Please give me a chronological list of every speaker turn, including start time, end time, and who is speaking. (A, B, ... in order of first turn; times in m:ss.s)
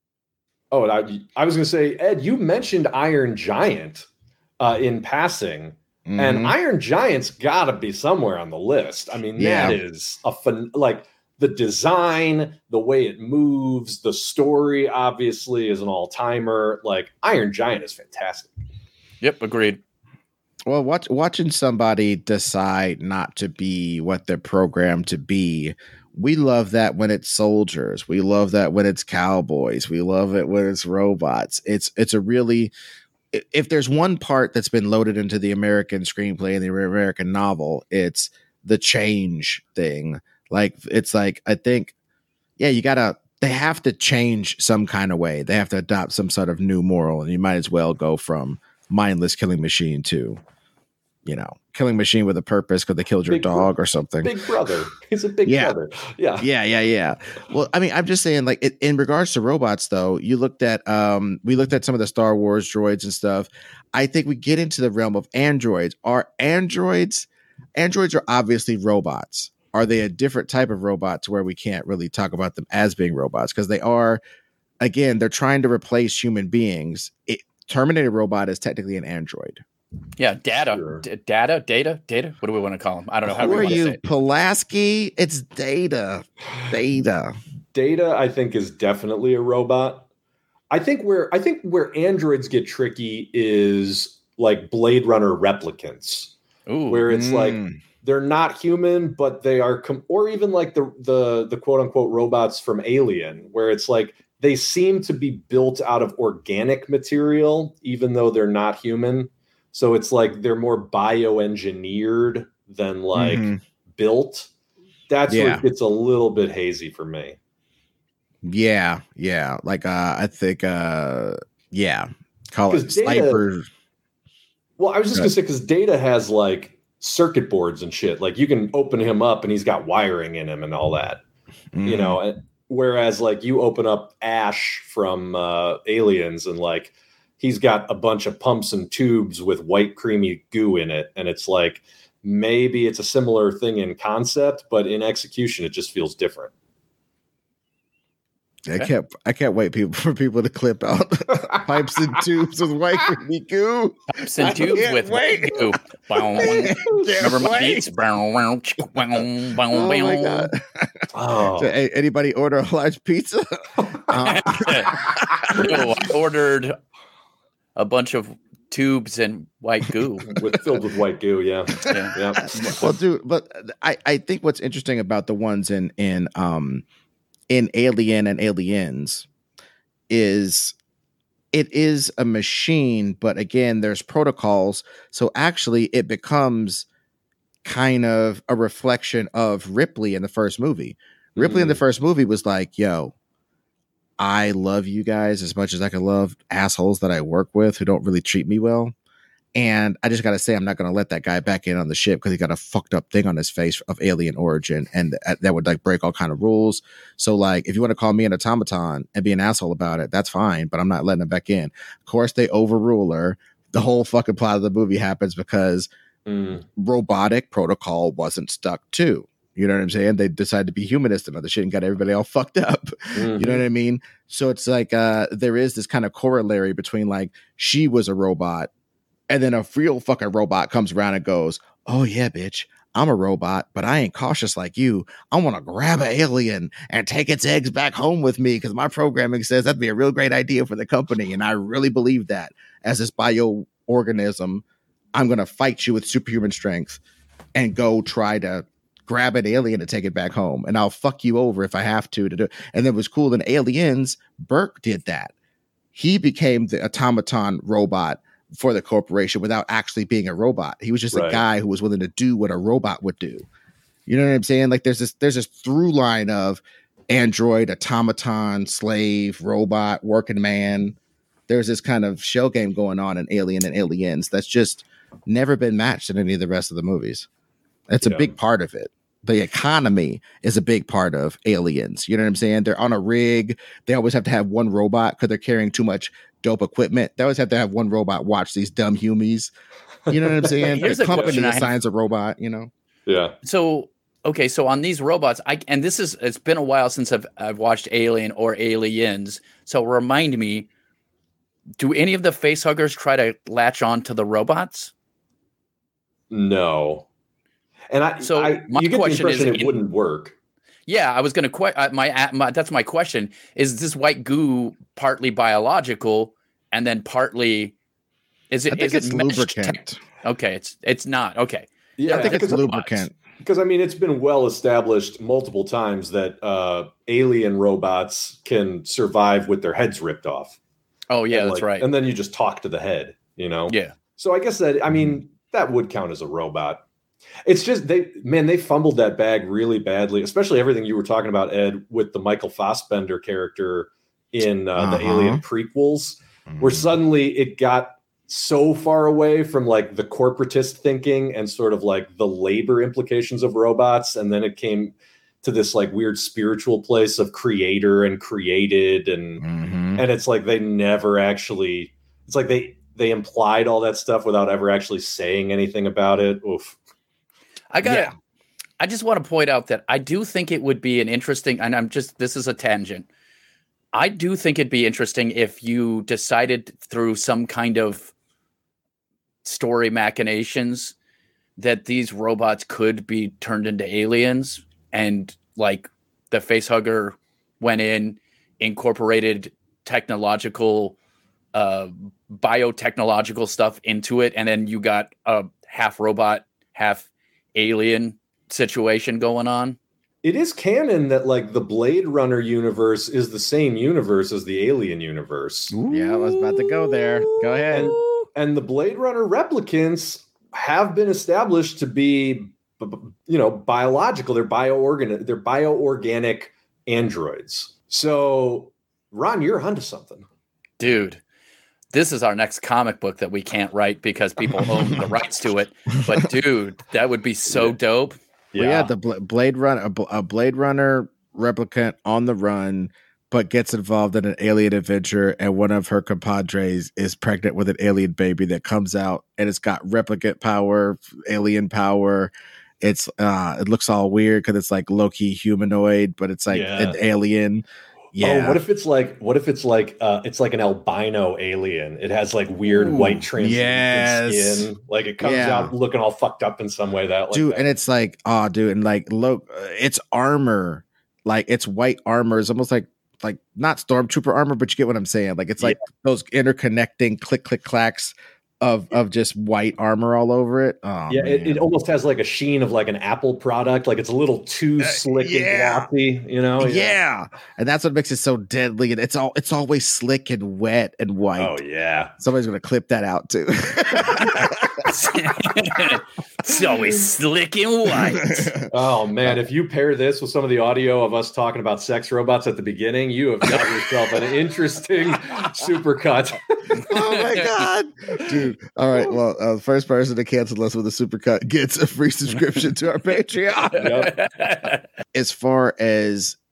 0:00.7-0:04.1 A
0:04.6-0:18.6 A
0:06.1-0:06.6 B
0:09.4-0:09.8 B
0:19.2-0:19.8 C
0:20.7-0:32.7 B
0:33.3-0:41.9 B
0:42.6-0:50.4 B
0:51.2-0:54.3 B
0:53.3-0:53.7 A
0:54.2-0:56.5 A
0:55.4-0:55.8 B
0:56.4-1:14.2 B
1:14.8-1:19.6 B
1:20.2-1:24.0 C
1:20.7-1:21.0 A
1:23.3-1:27.4 B
1:23.4-1:23.8 A
1:27.7-1:30.1 A
1:30.7-1:36.3 A
1:36.7-1:37.0 C
1:36.9-1:54.5 A
1:37.1-1:37.8 B
1:53.2-1:53.6 B
1:55.1-1:57.4 A
1:55.3-1:55.6 B
1:58.4-2:03.7 B
2:02.7-2:03.4 A
2:04.8-2:11.2 A
2:11.7-2:12.2 B
2:11.8-2:26.5 A
2:28.7-2:35.7 B
2:31.4-2:31.8 A
2:34.1-2:40.5 C
2:34.4-2:34.9 A
2:36.4-2:37.8 B
2:36.4-2:37.2 A
2:39.7-2:45.9 B
2:41.1-2:41.8 A
2:44.2-2:46.8 C
2:47.8-2:50.3 C
2:50.3-2:52.6 A
2:51.8-2:53.0 C
2:52.5-2:56.8 B
2:57.5-2:59.3 B
3:00.1-3:00.8 B
3:01.5-3:06.9 B
3:07.6-3:13.1 B
3:11.4-3:11.8 A
3:14.2-3:18.9 B
3:19.6-3:35.9 B
3:36.3-3:36.6 A
3:36.8-3:48.7 B
3:43.2-3:43.6 A
3:49.3-4:04.6 B
4:05.2-4:07.0 B
4:07.6-4:15.3 B
4:15.9-4:23.5 B
4:21.1-4:21.4 A
4:24.1-4:31.0 B
4:31.5-4:37.3 B
4:37.9-4:49.5 B
4:38.0-4:38.3 A
4:50.1-4:52.7 B
4:50.1-4:51.4 A
4:50.7-4:51.7 C
4:53.1-4:53.4 A
4:53.4-5:00.7 C
5:01.8-5:04.9 C
5:06.3-5:07.1 A
5:07.9-5:10.3 A
5:08.2-5:09.8 C
5:10.9-5:17.8 C
5:18.5-5:23.1 C
5:18.7-5:20.0 B
5:22.0-5:22.7 A
5:22.1-5:23.2 B
5:23.4-5:30.6 A
5:31.1-5:31.9 C
5:31.3-5:36.8 A
5:33.7-5:34.0 C
5:37.5-5:59.4 A
5:44.8-5:45.4 B
5:46.5-5:47.0 B
5:59.4-6:00.0 B
6:00.0-6:06.8 A
6:07.7-6:08.1 C
6:07.8-6:08.1 B
6:08.8-6:13.1 C
6:13.9-6:18.1 C
6:19.4-6:21.0 C
6:21.6-6:31.0 C
6:31.5-6:39.8 C
6:40.2-6:45.8 A
6:45.8-6:48.0 B
6:45.8-6:48.2 C
6:47.7-7:00.3 A
7:00.8-7:01.2 C
7:01.9-7:08.2 C
7:04.6-7:05.0 B
7:08.5-7:08.9 A
7:08.6-7:28.6 B
7:26.5-7:27.0 A
7:28.2-7:37.6 A
7:32.7-7:34.7 B
7:35.2-7:35.7 B
7:37.3-7:51.7 B
7:51.1-7:57.0 A
7:54.8-7:55.9 B
7:56.6-8:01.6 B
8:01.4-8:02.1 A
8:02.2-8:04.9 B
8:04.1-8:08.5 C
8:07.9-8:08.7 B
8:08.7-8:16.9 A
8:16.8-8:17.7 C
8:16.8-8:24.1 B
8:23.8-8:24.2 A
8:23.8-8:24.8 C
8:25.1-8:26.4 B